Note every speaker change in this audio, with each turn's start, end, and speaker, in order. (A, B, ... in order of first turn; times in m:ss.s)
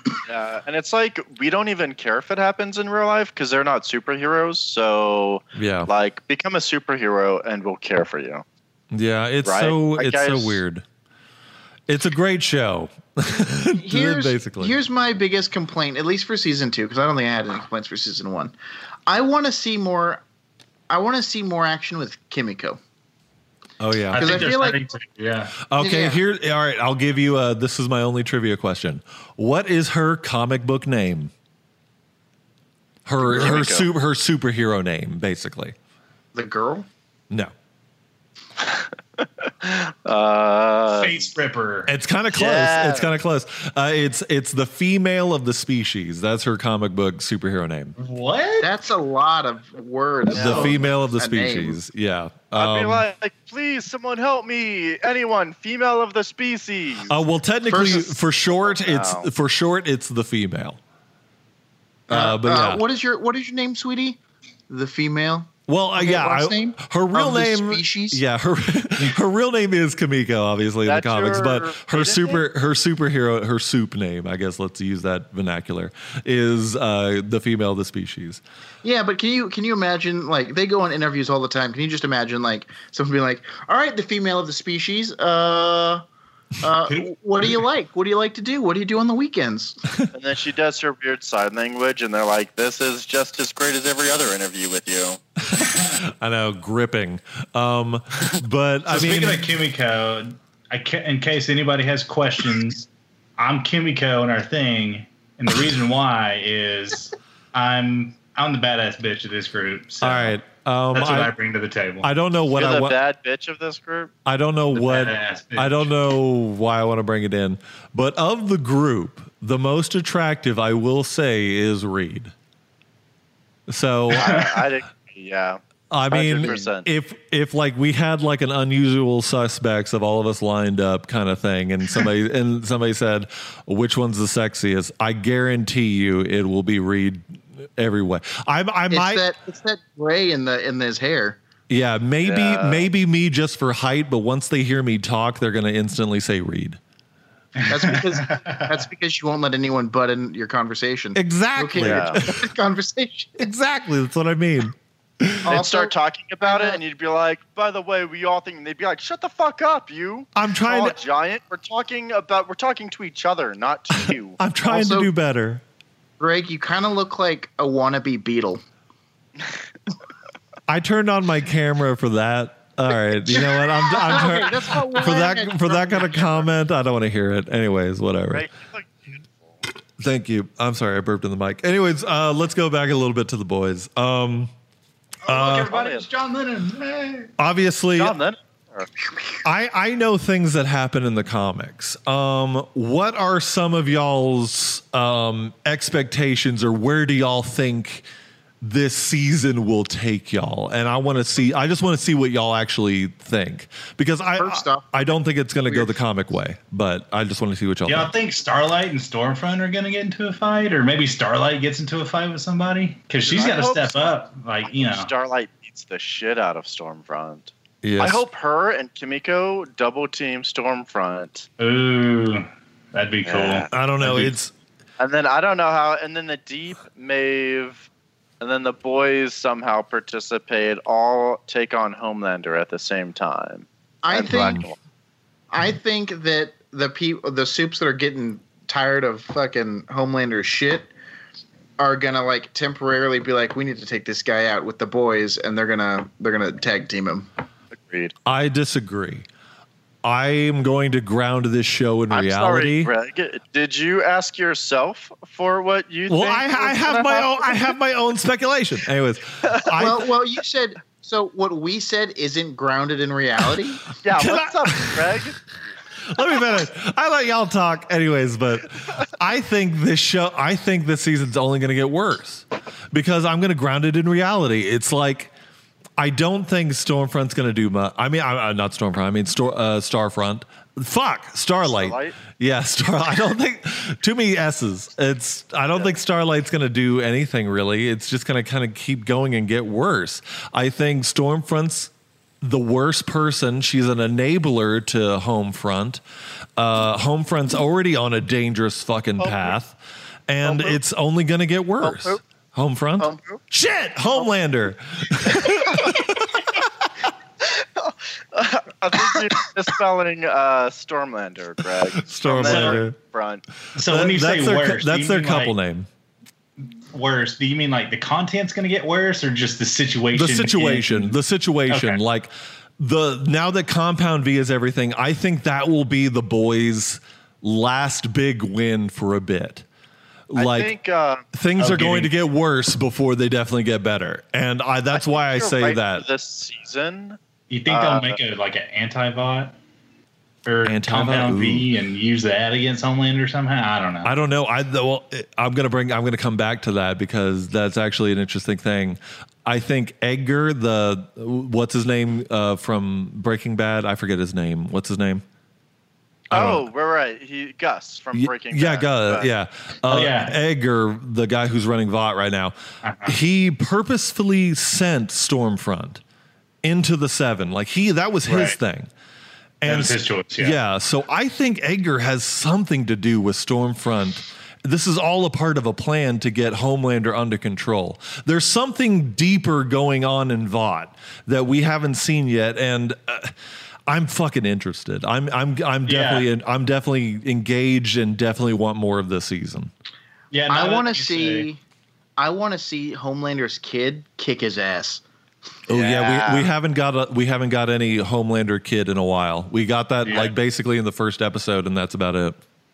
0:00.2-0:08.4 A
0:05.5-0:05.9 B
0:08.9-0:10.8 B
0:09.4-0:10.6 A
0:11.9-0:14.8 B
0:13.7-0:18.5 C
0:19.1-0:20.2 C
0:20.9-0:22.8 C
0:23.8-0:24.5 B
0:24.1-0:25.6 D
0:24.2-0:24.8 C
0:25.6-0:31.3 B
0:25.8-0:26.2 C
0:33.0-0:35.7 B
0:33.2-0:33.9 A
0:36.3-0:36.9 C
0:38.6-0:41.3 A
0:40.9-0:41.9 D
0:41.9-0:47.9 B
0:42.3-0:43.1 A
0:48.0-0:48.7 D
0:48.6-0:51.8 C
0:50.3-0:53.1 B
0:50.3-0:50.6 A
0:52.5-0:57.2 A
0:57.1-1:00.8 B
0:57.7-0:58.2 C
0:58.6-0:59.3 A
1:02.1-1:02.8 B
1:02.1-1:08.2 C
1:05.7-1:18.4 B
1:10.8-1:12.4 A
1:18.8-1:26.0 C
1:26.6-1:29.8 C
1:30.1-1:35.2 A
1:35.5-1:39.5 B
1:35.6-1:36.0 D
1:38.9-1:50.4 D
1:50.0-1:51.3 B
1:50.9-1:52.1 D
1:52.0-1:53.0 B
1:52.5-1:54.1 A
1:54.2-2:02.3 B
1:54.7-1:55.9 D
2:03.7-2:04.4 B
2:04.1-2:06.9 A
2:04.1-2:04.6 D
2:05.9-2:19.3 B
2:18.9-2:21.4 C
2:21.7-2:26.8 B
2:22.2-2:22.9 A
2:27.6-2:28.8 D
2:27.7-2:33.5 C
2:31.1-2:32.4 B
2:31.8-2:32.2 A
2:33.4-2:35.5 B
2:35.4-2:36.8 C
2:35.5-2:44.4 A
2:40.4-2:41.0 B
2:43.9-2:45.6 B
2:44.6-2:45.1 C
2:46.2-2:48.6 C
2:50.7-2:58.5 B
2:53.9-2:56.4 C
2:58.3-2:59.6 A
3:00.0-3:04.5 B
3:05.2-3:07.3 D
3:05.2-3:05.7 B
3:05.7-3:06.1 A
3:07.4-3:08.2 B
3:08.0-3:08.9 A
3:09.4-3:18.0 B
3:18.6-3:28.1 B
3:24.4-3:25.9 C
3:27.8-3:35.1 D
3:33.2-3:34.1 A
3:34.6-3:41.5 A
3:37.8-3:38.2 B
3:41.6-3:44.3 D
3:43.2-3:43.7 A
3:43.7-3:44.5 B
3:45.0-3:47.9 A
3:48.4-3:54.7 A
3:54.0-3:54.7 C
3:55.5-4:00.9 C
4:01.8-4:07.3 C
4:07.7-4:08.1 A
4:08.2-4:09.2 B
4:10.0-4:12.9 B
4:12.1-4:17.7 A
4:16.1-4:20.1 B
4:19.4-4:19.8 A
4:19.8-4:23.8 C
4:24.0-4:25.4 A
4:24.1-4:25.2 B
4:26.0-4:35.3 B
4:36.0-4:56.0 B
4:41.6-4:42.2 A
4:56.6-5:06.5 B
4:59.2-4:59.6 A
5:00.4-5:00.8 A
5:01.8-5:02.2 A
5:03.0-5:03.4 A
5:05.2-5:06.3 A
5:07.4-5:13.4 A
5:12.0-5:13.0 B
5:12.4-5:12.8 D
5:13.7-5:15.5 D
5:13.8-5:15.9 B
5:16.6-5:21.1 D
5:20.1-5:29.6 B
5:21.7-5:22.0 D
5:30.3-5:30.7 B
5:30.3-5:31.2 A
5:31.3-5:36.0 B
5:31.6-5:32.1 D
5:34.9-5:38.2 A
5:37.5-5:39.6 D
5:40.4-5:44.1 D
5:40.6-5:41.7 B
5:44.0-5:55.2 B
5:56.3-5:56.7 B
5:56.3-5:59.3 A
5:58.1-6:06.0 B
5:59.9-6:00.4 D
6:02.8-6:03.1 D
6:06.6-6:08.9 B
6:08.3-6:08.6 D
6:09.6-6:23.3 B
6:09.6-6:10.6 D
6:23.9-6:29.7 B
6:25.8-6:26.2 D
6:30.3-6:31.5 D
6:30.5-6:31.6 C
6:32.2-6:35.0 C
6:35.7-6:42.4 B
6:35.7-6:36.5 A
6:40.0-6:40.3 D